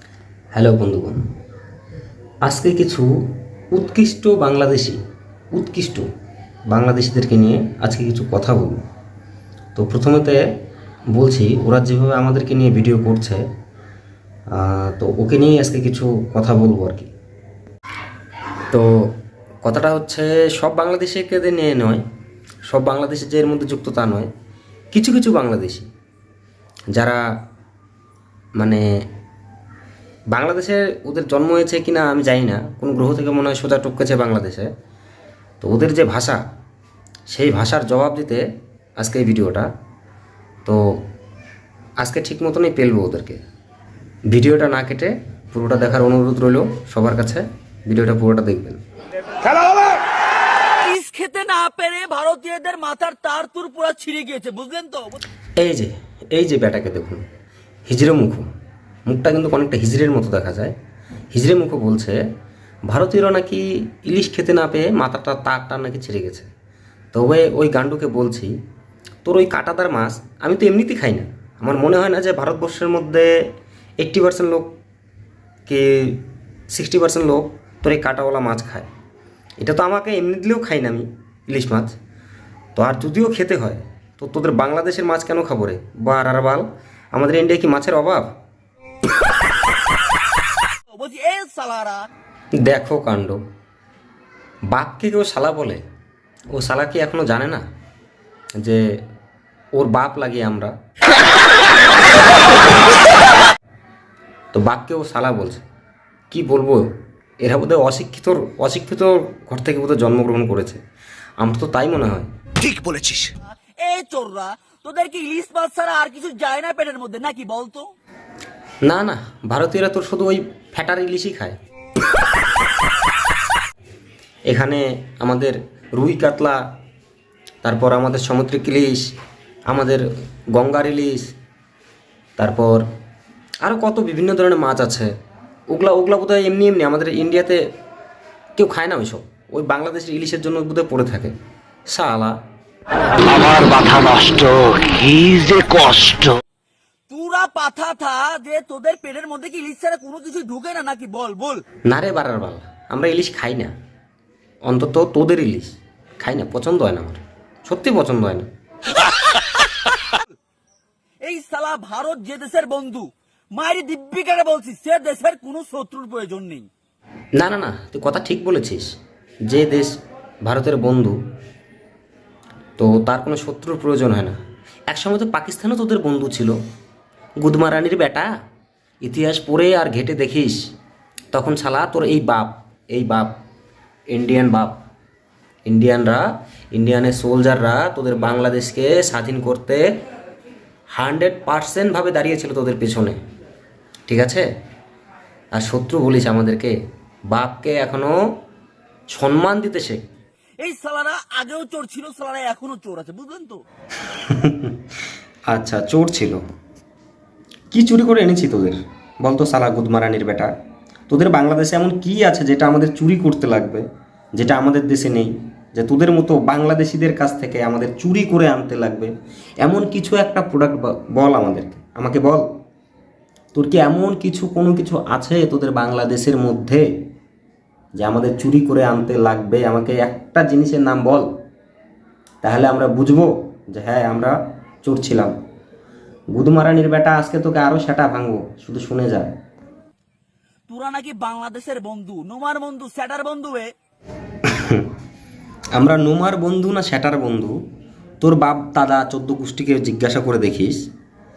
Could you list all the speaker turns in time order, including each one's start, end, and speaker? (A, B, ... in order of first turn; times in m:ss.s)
0:00.5-0:01.3 A
0:02.4-0:05.0 A
0:05.5-0:06.1 A
0:06.7-0:08.8 A
0:09.8-0:10.5 A
0:11.1-0:13.5 A
0:14.5-0:17.1 A
0:18.7-0:22.0 A
0:22.7-0:24.3 A
0:24.9-0:25.9 A
0:26.9-0:27.4 A
0:28.6-0:29.1 A
0:30.3-0:34.7 A
0:35.6-0:36.4 A
0:37.3-0:38.5 A
0:39.0-0:39.7 A
0:40.6-0:41.1 A
0:42.0-0:43.4 A
0:44.3-0:48.8 A
0:49.4-0:50.0 B
0:50.7-0:55.2 B
0:55.6-0:57.2 A
0:57.9-0:58.5 A
0:59.1-1:00.8 A
1:01.3-1:02.2 A
1:02.9-1:06.5 A
1:07.1-1:08.6 A
1:09.2-1:13.5 A
1:14.0-1:14.7 A
1:15.7-1:18.9 A
1:19.6-1:21.9 A
1:22.8-1:28.3 A
1:30.9-1:32.1 B
1:32.6-1:33.4 A
1:34.7-1:35.8 A
1:36.5-1:37.6 A
1:38.6-1:39.0 A
1:39.7-1:40.8 A
1:44.5-1:45.6 A
1:46.3-1:50.8 A
1:51.4-1:52.3 A
1:52.7-1:53.2 C
1:52.7-1:57.9 B
1:58.8-2:01.6 A
2:04.5-2:06.7 A
2:07.6-2:09.1 A
2:09.7-2:11.3 A
2:12.4-2:12.9 A
2:13.6-2:15.1 A
2:15.7-2:17.7 A
2:18.6-2:21.3 A
2:21.9-2:22.4 A
2:23.2-2:26.4 C
2:27.1-2:31.6 B
2:31.9-2:33.7 A
2:34.6-2:38.5 A
2:41.2-2:46.7 B
2:47.4-2:51.2 A
2:52.8-2:56.6 A
2:57.4-2:58.3 A
2:59.0-3:00.7 A
3:01.3-3:03.4 A
3:04.1-3:04.8 A
3:05.6-3:09.8 A
3:10.9-3:13.2 A
3:14.1-3:14.5 A
3:15.5-3:16.8 A
3:17.3-3:18.2 A
3:19.1-3:20.1 A
3:20.6-3:23.6 B
3:24.1-3:24.8 A
3:25.5-3:26.4 A
3:27.7-3:30.5 A
3:31.1-3:42.5 A
3:43.5-3:46.9 A
3:48.0-3:51.3 A
3:52.4-3:55.3 A
3:56.3-3:59.3 A
4:00.7-4:03.7 B
4:04.4-4:04.9 A
4:05.7-4:07.6 A
4:08.2-4:10.9 A